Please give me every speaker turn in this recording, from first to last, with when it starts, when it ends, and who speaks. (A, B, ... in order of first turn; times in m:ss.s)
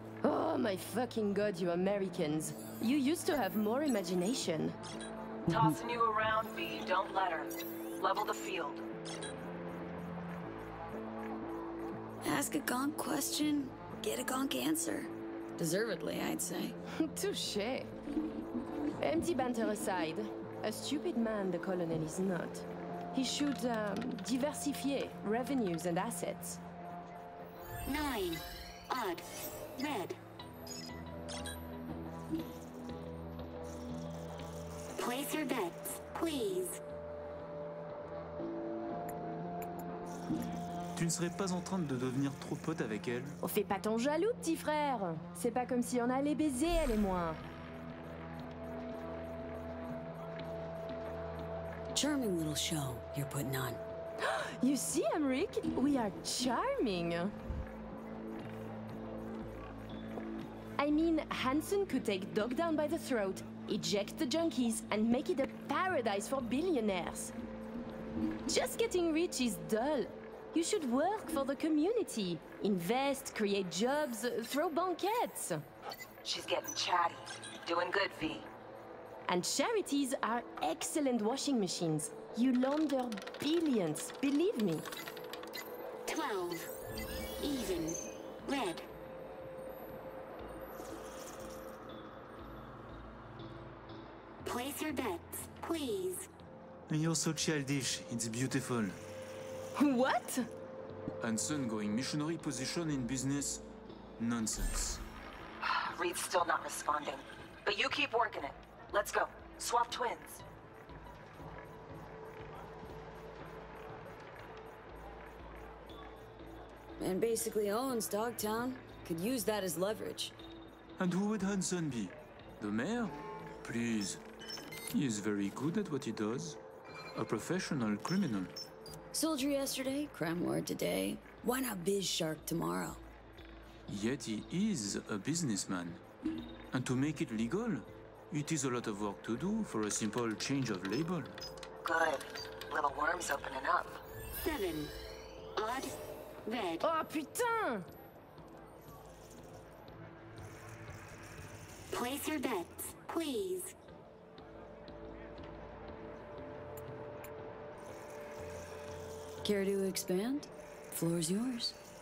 0:00.2-0:04.8 A
0:05.5-0:08.8 B
0:12.2-0:16.8 C
0:17.0-0:17.9 A
0:19.0-0:26.6 A
0:35.0-0:36.7 D
0:41.0-0:43.4 E
0:43.4-0:47.4 A
0:51.9-0:53.8 C
0:54.2-0:57.3 A
1:00.8-1:07.3 A
1:08.5-1:15.6 A
1:16.2-1:18.5 B
1:19.3-1:24.8 A
1:26.1-1:26.6 D
1:27.4-1:27.9 D
1:28.5-1:28.8 D
1:34.5-1:36.2 D
1:36.9-1:39.0 E
1:39.8-1:40.5 A
1:41.2-1:43.6 E
1:44.2-1:45.0 E
1:45.6-1:50.4 B
1:57.0-2:00.4 C
2:01.0-2:04.2 E
2:04.9-2:06.6 E
2:07.2-2:08.5 E
2:09.1-2:13.0 C
2:13.9-2:16.0 E
2:16.7-2:21.3 E
2:21.8-2:24.0 B
2:24.5-2:24.9 D
2:25.6-2:25.9 D
2:26.5-2:26.8 D
2:26.8-2:27.9 A
2:31.9-2:33.7 D
2:39.4-2:41.8 C